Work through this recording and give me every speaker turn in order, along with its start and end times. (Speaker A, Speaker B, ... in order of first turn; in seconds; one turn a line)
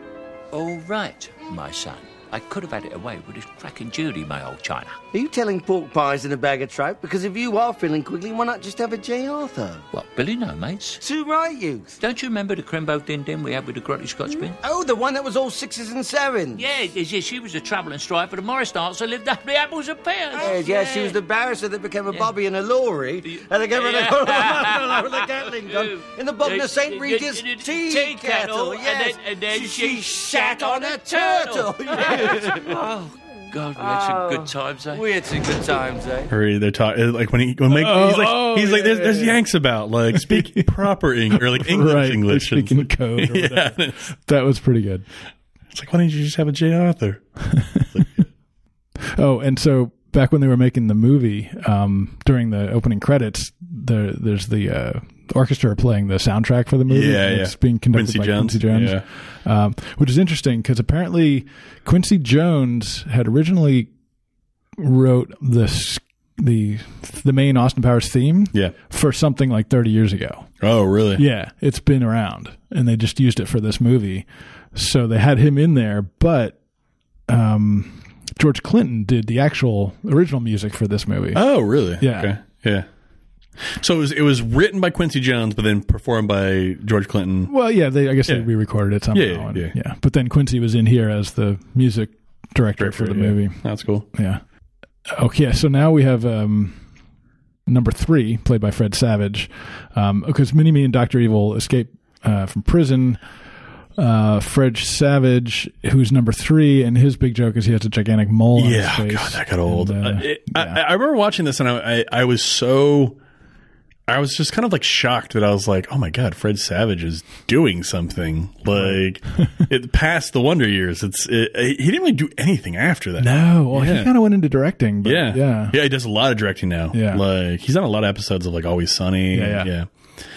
Speaker A: 0.5-5.0
Speaker B: 5.1-9.9
Speaker A: 9.9-11.0
Speaker B: 11.0-12.0
Speaker A: 12.0-14.6
Speaker B: 14.6-16.6
Speaker A: 16.6-21.2
Speaker B: 20.3-33.0
Speaker A: 22.1-22.3
Speaker A: 23.2-35.8
Speaker B: 33.8-36.3
Speaker C: 36.3-44.1
Speaker D: 37.7-39.4
Speaker D: 40.1-40.8
Speaker D: 41.3-45.1
Speaker C: 45.7-48.3
Speaker D: 49.1-63.9
Speaker C: 56.9-59.0
Speaker D: 64.8-70.5
Speaker C: 70.6-71.2
Speaker D: 71.2-76.6
Speaker D: 77.3-82.3
Speaker C: 81.3-82.9
Speaker C: 83.6-87.5
Speaker D: 87.5-94.4
Speaker C: 89.1-89.7
Speaker C: 92.8-94.1
Speaker D: 95.1-96.8
Speaker D: 97.7-103.2
Speaker D: 104.0-110.8
Speaker C: 108.6-113.2
Speaker C: 114.1-124.1
Speaker D: 118.7-119.6
Speaker D: 123.2-125.8
Speaker C: 125.0-129.9
Speaker D: 126.9-127.2
Speaker D: 129.3-129.7